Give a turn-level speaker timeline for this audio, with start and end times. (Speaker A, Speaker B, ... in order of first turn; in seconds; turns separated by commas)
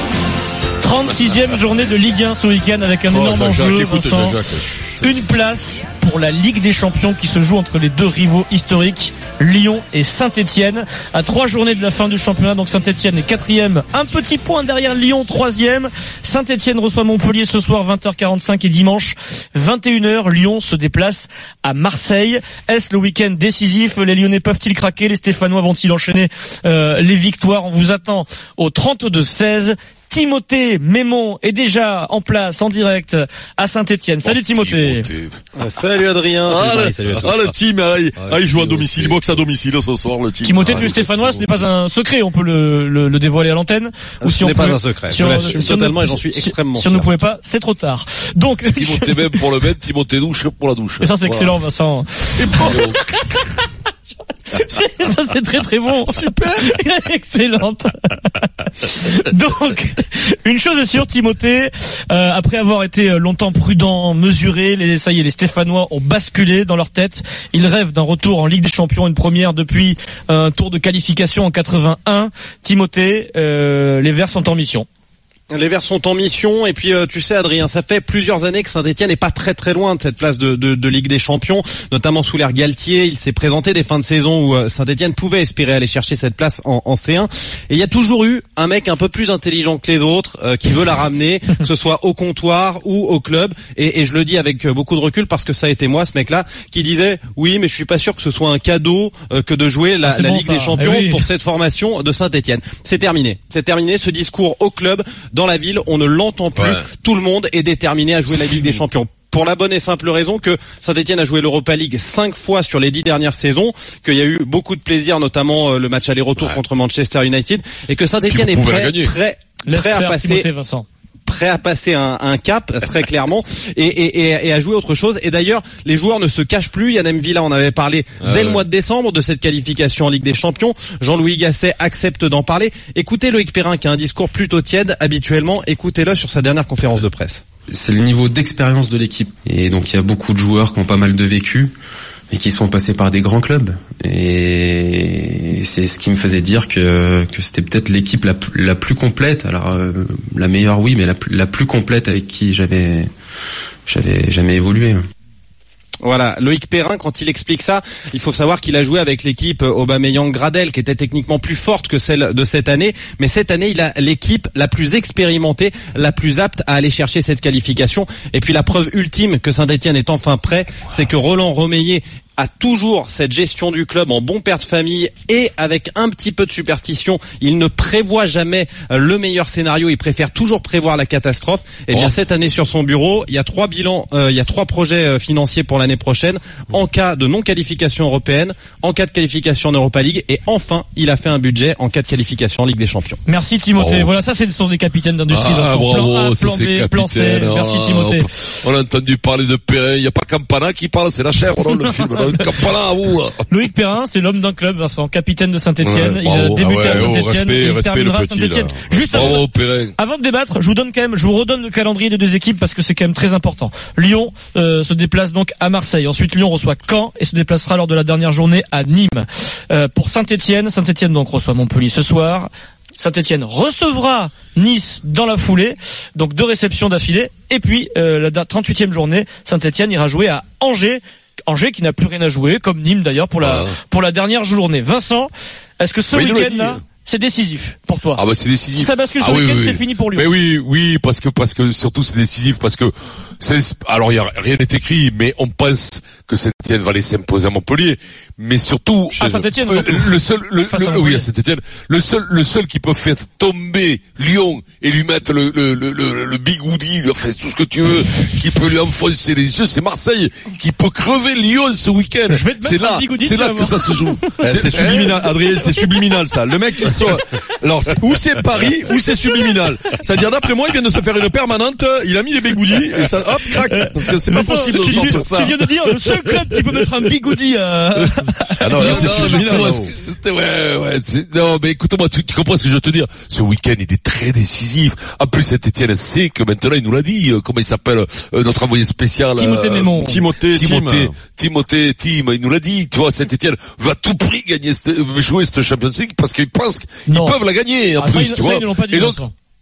Speaker A: 0.8-4.4, Speaker B: 3.1-5.1, Speaker A: 5.0-35.1, Speaker C: 34.2-35.4, Speaker D: 35.6-37.1, Speaker B: 36.5-41.0, Speaker C: 37.0-37.5, Speaker C: 38.2-39.4, Speaker A: 40.4-49.4, Speaker C: 40.6-41.7, Speaker D: 44.2-47.1, Speaker C: 48.7-51.5, Speaker A: 51.0-53.6, Speaker C: 52.4-53.0, Speaker A: 54.5-74.8, Speaker B: 56.1-56.7, Speaker D: 75.5-120.4, Speaker A: 100.0-101.2, Speaker C: 106.5-106.8, Speaker C: 118.3-119.1, Speaker A: 119.6-120.8, Speaker D: 121.3-137.4, Speaker C: 128.2-128.6, Speaker E: 137.7-141.7, Speaker E: 142.3-153.1, Speaker E: 153.9-155.0, Speaker D: 156.0-193.2, Speaker A: 193.2-198.3, Speaker C: 193.8-194.1, Speaker C: 195.3-203.5, Speaker A: 203.5-238.2, Speaker C: 205.8-207.2, Speaker B: 206.6-209.4, Speaker C: 209.1-209.9, Speaker C: 233.4-233.8, Speaker C: 236.1-236.8, Speaker C: 238.2-265.3, Speaker A: 238.7-240.3, Speaker A: 249.2-250.2, Speaker A: 250.7-251.2, Speaker A: 262.3-265.2, Speaker B: 264.4-275.5, Speaker A: 273.8-279.7, Speaker C: 274.3-276.7, Speaker B: 278.6-279.9, Speaker C: 278.7-299.3, Speaker A: 289.4-290.2, Speaker B: 290.0-291.1, Speaker A: 297.1-297.4, Speaker A: 298.0-299.3